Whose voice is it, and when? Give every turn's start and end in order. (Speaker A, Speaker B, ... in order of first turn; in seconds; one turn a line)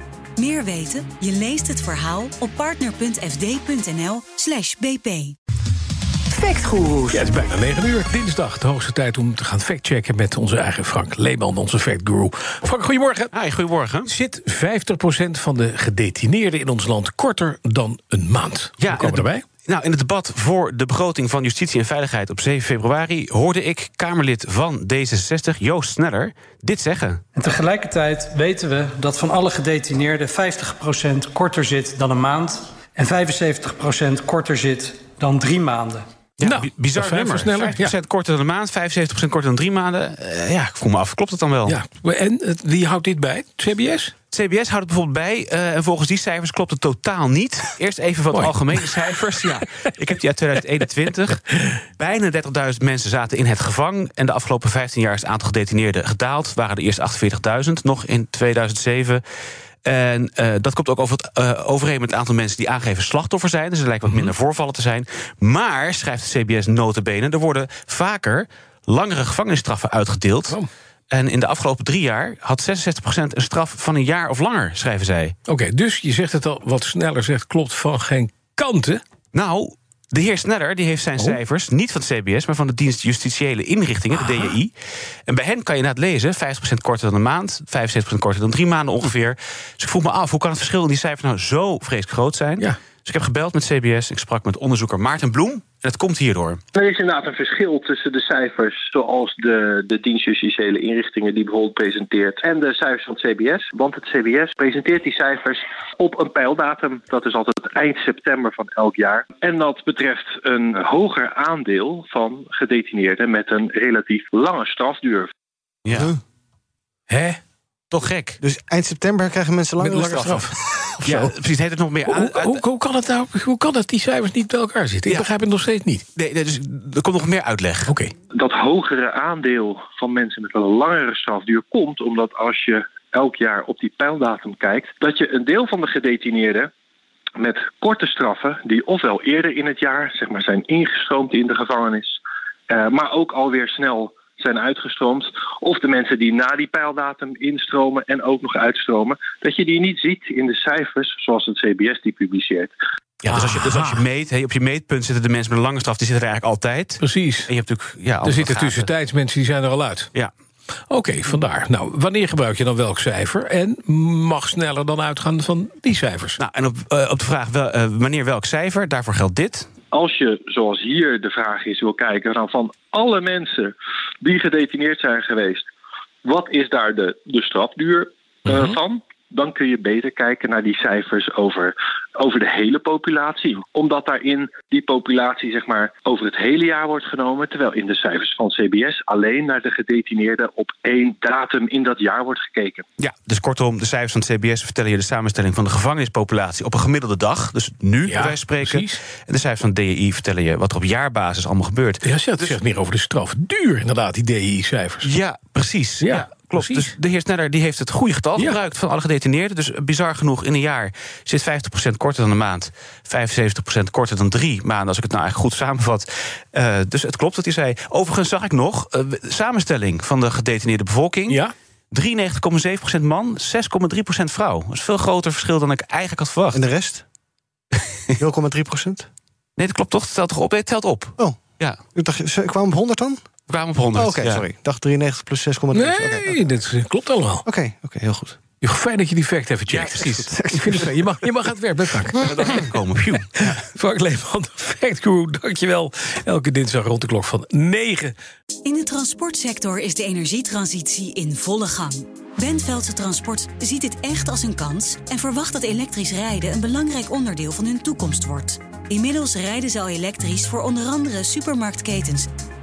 Speaker A: 0.4-5.3
Speaker B: 6.4-13.3
Speaker C: 13.3-14.1
Speaker B: 14.0-19.4
Speaker C: 18.8-27.2
Speaker D: 27.4-36.0
Speaker C: 36.4-41.8
Speaker B: 36.4-37.9
Speaker B: 41.6-44.1
Speaker C: 44.3-59.2
Speaker B: 48.3-49.1
Speaker C: 59.8-70.6
Speaker C: 71.1-75.3
Speaker B: 75.5-79.0
Speaker C: 79.3-84.7
Speaker C: 85.3-96.6
Speaker E: 96.7-115.3
Speaker C: 115.8-116.1
Speaker F: 115.9-116.2
Speaker B: 117.1-117.4
Speaker C: 117.9-118.4
Speaker F: 118.4-120.5
Speaker B: 119.8-121.3
Speaker C: 121.0-122.6
Speaker B: 122.0-126.0
Speaker C: 126.2-127.9
Speaker B: 127.9-128.1
Speaker E: 128.3-136.7
Speaker E: 137.4-152.7
Speaker C: 153.2-158.9
Speaker B: 153.2-154.0
Speaker B: 157.0-157.5
Speaker B: 158.2-160.1
Speaker B: 160.9-166.4
Speaker C: 166.4-169.7
Speaker E: 169.9-175.7
Speaker E: 176.2-192.8
Speaker C: 193.0-202.6
Speaker B: 198.0-199.0
Speaker B: 202.0-205.1
Speaker C: 205.0-221.4
Speaker B: 206.0-206.9
Speaker B: 221.3-221.5
Speaker C: 221.9-226.7
Speaker F: 226.5-227.0
Speaker F: 228.2-229.1
Speaker C: 229.6-231.8
Speaker F: 231.2-233.2
Speaker C: 233.5-234.4
Speaker F: 233.9-236.5
Speaker B: 235.7-237.4
Speaker F: 237.4-238.4
Speaker B: 238.6-242.6
Speaker C: 239.7-240.4
Speaker F: 240.3-240.8
Speaker C: 242.2-243.6
Speaker B: 243.4-248.1
Speaker A: 248.6-262.3